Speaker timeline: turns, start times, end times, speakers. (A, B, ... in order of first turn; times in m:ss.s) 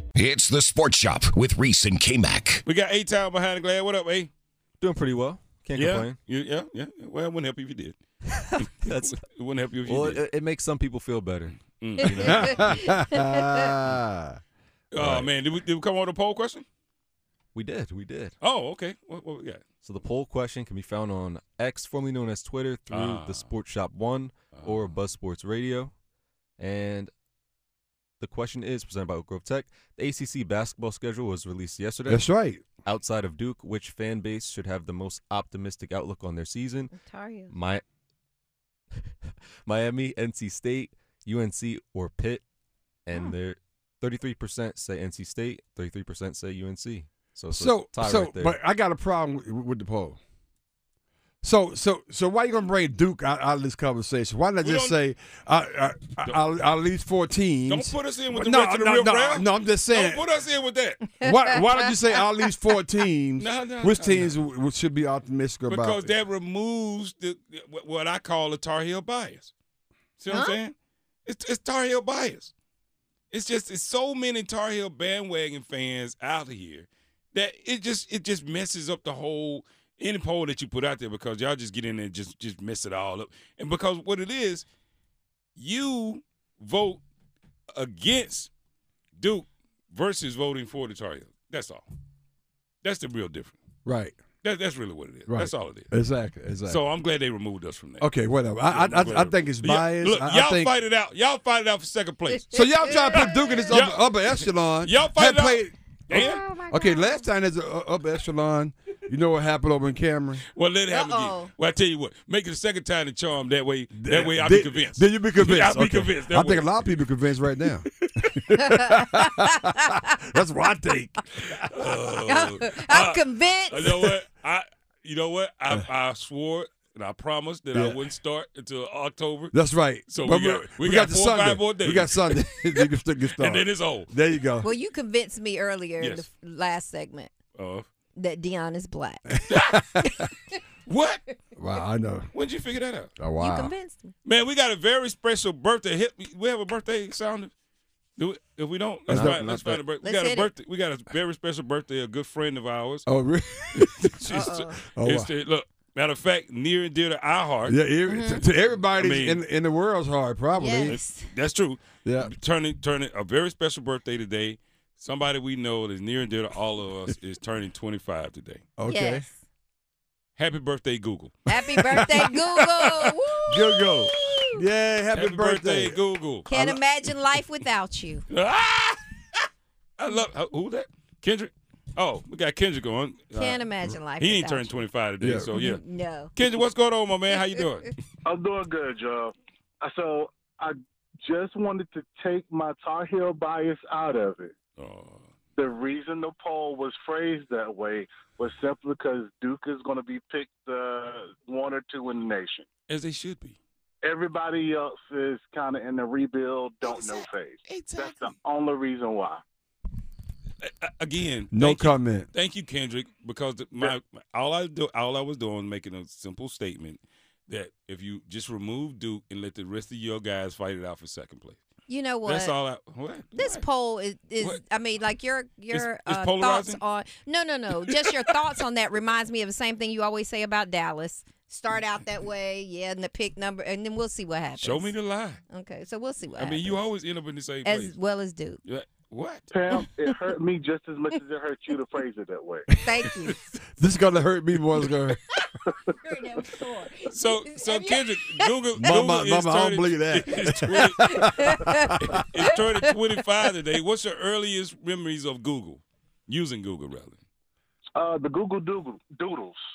0:00.2-0:02.6 A
0:02.6-0:04.3 B
0:04.8-0:06.2 C
0:05.7-0:08.0 B
0:08.6-0:10.2 B
0:08.8-0:09.2 C
0:09.8-0:12.8 C
0:11.6-0:12.7 B
0:12.2-0:13.9 D
0:13.1-0:13.4 E
0:13.8-0:14.4 C
0:14.9-0:16.7 B
0:15.0-0:15.3 C
0:17.6-0:18.4 C
0:18.4-0:19.6 B
0:19.8-0:25.9 C
0:22.9-0:23.5 B
0:24.5-0:24.9 B
0:26.6-0:27.1 C
0:28.2-0:32.3 C
0:32.1-0:32.7 D
0:32.8-0:36.9 C
0:36.9-0:37.5 E
0:37.5-0:37.8 C
0:39.3-0:42.4 C
0:43.1-0:48.6 C
0:47.5-0:50.2 D
0:51.4-1:00.3 D
0:54.6-0:55.0 B
0:57.7-1:01.0 B
1:01.2-1:01.9 E
1:01.2-1:06.1 D
1:03.4-1:04.4 B
1:05.7-1:09.5 B
1:10.2-1:10.8 B
1:10.3-1:10.6 E
1:11.3-1:12.5 B
1:13.3-1:24.6 B
1:25.6-1:27.0 B
1:27.7-1:28.5 B
1:29.2-1:31.8 B
1:32.8-1:33.6 B
1:33.8-1:34.2 D
1:34.4-1:35.9 B
1:35.3-1:36.8 D
1:36.6-1:38.1 B
1:38.0-1:40.7 D
1:38.7-1:46.5 B
1:42.4-1:43.9 E
1:42.5-1:50.4 D
1:46.1-1:47.3 E
1:50.5-1:57.0 B
1:50.9-1:51.5 E
1:53.9-2:01.7 D
1:58.5-1:59.6 E
2:01.7-2:09.5 B
2:02.2-2:03.9 E
2:07.7-2:08.0 D
2:09.5-2:14.7 D
2:10.0-2:14.1 B
2:14.6-2:17.3 E
2:16.0-2:16.3 B
2:17.6-2:17.9 B
2:18.2-2:19.3 E
2:19.3-2:20.3 D
2:20.9-2:21.2 B
2:21.6-2:22.3 D
2:22.3-2:23.1 B
2:23.2-2:23.7 D
2:23.4-2:24.1 E
2:24.2-2:27.5 B
2:28.2-2:33.0 B
2:29.1-2:29.6 D
2:29.1-2:29.8 C
2:30.0-2:30.5 E
2:33.1-2:34.2 D
2:33.8-2:37.8 B
2:34.3-2:34.8 E
2:34.9-2:35.3 D
2:37.7-2:41.0 D
2:38.1-2:38.4 E
2:38.8-2:39.4 B
2:40.6-2:41.3 E
2:40.9-2:48.6 B
2:42.0-2:42.3 D
2:48.8-2:49.3 D
2:48.9-2:49.4 E
2:50.4-2:53.1 B
2:51.5-2:54.2 E
2:53.5-2:56.0 D
2:55.1-2:56.5 B
2:56.5-2:58.2 E
2:56.5-2:56.8 D
2:58.3-2:59.4 B
3:00.0-3:05.8 B
3:03.3-3:04.9 E
3:05.2-3:05.6 D
3:05.5-3:06.3 E
3:06.3-3:07.9 B
3:08.2-3:14.5 F
3:14.8-3:15.3 B
3:15.6-3:22.7 F
3:22.9-3:23.6 B
3:24.0-3:29.4 F
3:26.8-3:28.4 B
3:30.6-3:41.6 B
3:31.5-3:32.3 D
3:41.9-3:42.6 E
3:42.2-3:43.7 B
3:43.3-3:55.0 E
3:45.7-3:46.8 B
3:54.6-3:55.4 B
3:55.5-3:56.9 E
3:56.4-3:58.0 B
3:57.6-3:58.6 E
3:58.6-3:59.6 B
3:59.5-4:02.6 F
4:02.8-4:03.6 E
4:03.8-4:05.2 D
4:05.9-4:08.5 E
4:07.1-4:11.2 B
4:08.7-4:12.2 D
4:11.0-4:12.6 E
4:12.2-4:17.2 B
4:18.0-4:19.6 F